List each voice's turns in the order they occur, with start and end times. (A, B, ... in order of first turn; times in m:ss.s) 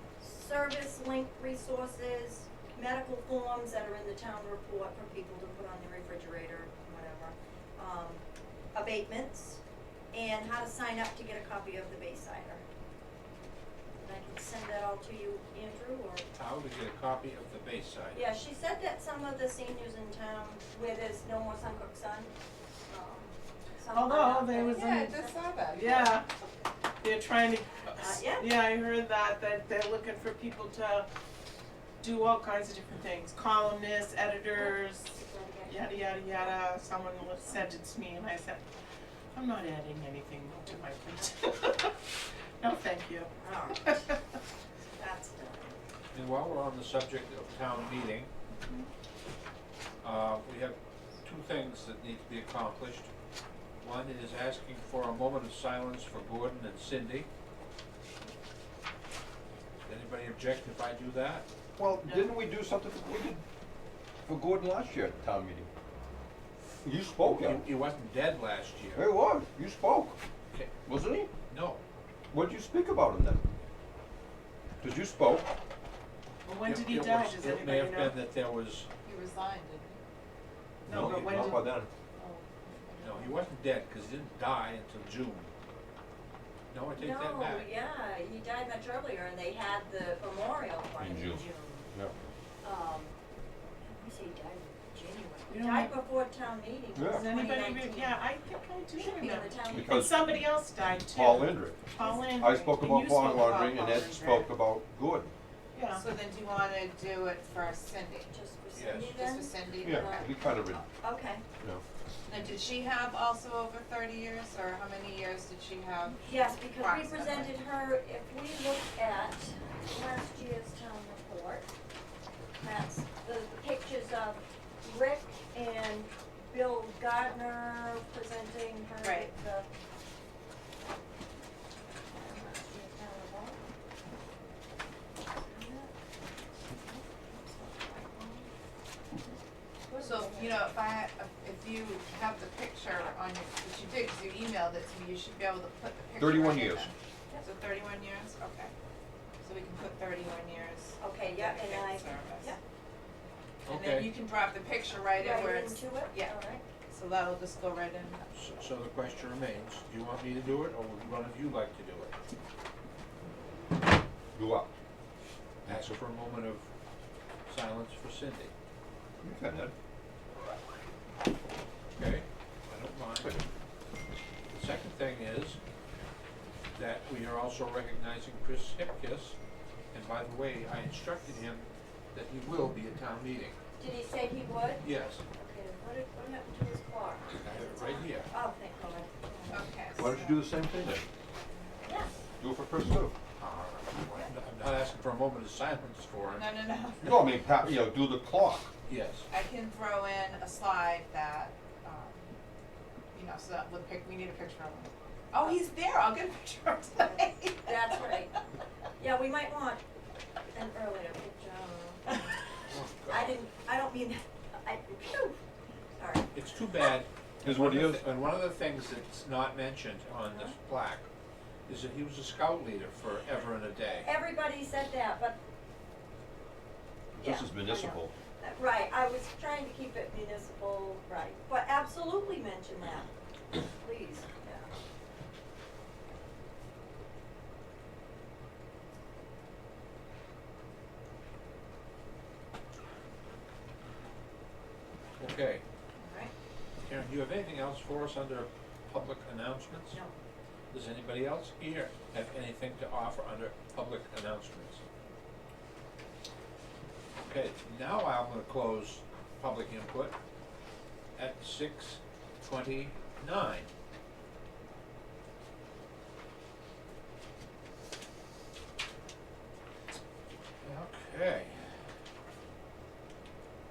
0:00.2-0:08.2 A
0:08.8-0:09.6 A
0:10.1-0:12.6 A
0:14.0-0:16.3 A
0:16.4-0:18.2 B
0:18.1-0:22.3 A
0:22.9-0:25.4 A
0:23.9-0:25.2 C
0:24.7-0:26.2 D
0:25.7-0:26.3 C
0:27.0-0:31.1 C
0:28.0-0:28.5 A
0:32.0-0:35.2 C
0:34.6-0:35.9 A
0:35.7-0:38.7 C
0:39.3-0:42.1 C
0:42.6-0:44.2 C
0:43.4-0:44.1 A
0:45.0-0:45.8 A
0:46.1-0:48.3 B
0:50.0-0:53.1 B
0:53.8-0:57.3 B
0:59.8-1:01.5 B
1:01.8-1:03.4 E
1:04.2-1:05.7 E
1:06.8-1:07.7 E
1:07.2-1:09.1 B
1:09.0-1:10.2 E
1:10.9-1:11.3 E
1:11.5-1:11.8 B
1:12.3-1:13.4 E
1:14.8-1:15.5 E
1:16.4-1:18.2 C
1:16.6-1:18.9 B
1:19.0-1:20.0 D
1:20.9-1:21.7 C
1:20.9-1:21.3 B
1:20.9-1:21.9 E
1:21.3-1:23.4 D
1:23.0-1:25.5 B
1:26.7-1:27.7 B
1:27.0-1:31.9 A
1:31.0-1:32.1 E
1:32.6-1:33.2 A
1:33.8-1:38.2 A
1:35.5-1:35.9 C
1:37.0-1:37.3 E
1:37.0-1:44.5 C
1:39.0-1:40.1 A
1:39.7-1:40.2 E
1:41.1-1:45.3 E
1:45.7-1:46.0 C
1:45.9-1:48.3 D
1:48.3-1:50.3 A
1:48.7-1:49.2 B
1:49.1-1:50.8 D
1:49.8-1:50.8 E
1:51.0-1:51.4 A
1:52.3-1:57.5 D
1:56.2-2:01.7 A
2:02.6-2:09.7 A
2:09.0-2:09.3 D
2:12.1-2:13.6 A
2:15.3-2:15.9 A
2:17.3-2:18.5 A
2:19.2-2:20.6 A
2:20.0-2:28.7 D
2:26.2-2:26.9 E
2:29.4-2:32.6 D
2:31.0-2:32.6 A
2:33.7-2:34.1 B
2:33.7-2:36.3 D
2:35.2-2:36.6 A
2:36.9-2:38.2 D
2:38.3-2:42.1 B
2:44.3-2:44.7 E
2:45.7-2:46.7 B
2:47.5-2:48.5 B
2:49.2-2:49.7 E
2:51.9-2:53.4 B
2:54.5-2:55.6 B
2:56.8-2:59.4 B
2:59.9-3:03.6 B
3:03.8-3:04.8 A
3:04.8-3:05.2 B
3:05.4-3:09.7 A
3:07.3-3:08.3 B
3:09.5-3:10.5 D
3:10.0-3:11.1 E
3:11.8-3:12.1 A
3:12.4-3:13.2 E
3:13.4-3:16.5 B
3:16.3-3:17.4 D
3:17.0-3:18.7 E
3:18.9-3:19.3 B
3:19.3-3:22.3 D
3:23.1-3:28.2 D
3:27.0-3:28.4 A
3:29.0-3:29.8 A
3:30.5-3:32.4 A
3:32.7-3:33.4 B
3:33.1-3:35.4 A
3:36.0-3:36.3 A
3:36.3-3:41.1 B
3:37.4-3:38.1 E
3:41.7-3:44.1 B
3:44.0-3:45.4 A
3:47.2-3:48.1 E
3:47.2-3:53.1 A
3:53.8-3:54.7 A
4:05.2-4:05.6 B
4:06.0-4:06.3 A
4:06.8-4:10.0 B
4:10.7-4:14.8 B
4:17.2-4:20.2 B
4:21.2-4:23.7 B
4:30.6-4:31.8 B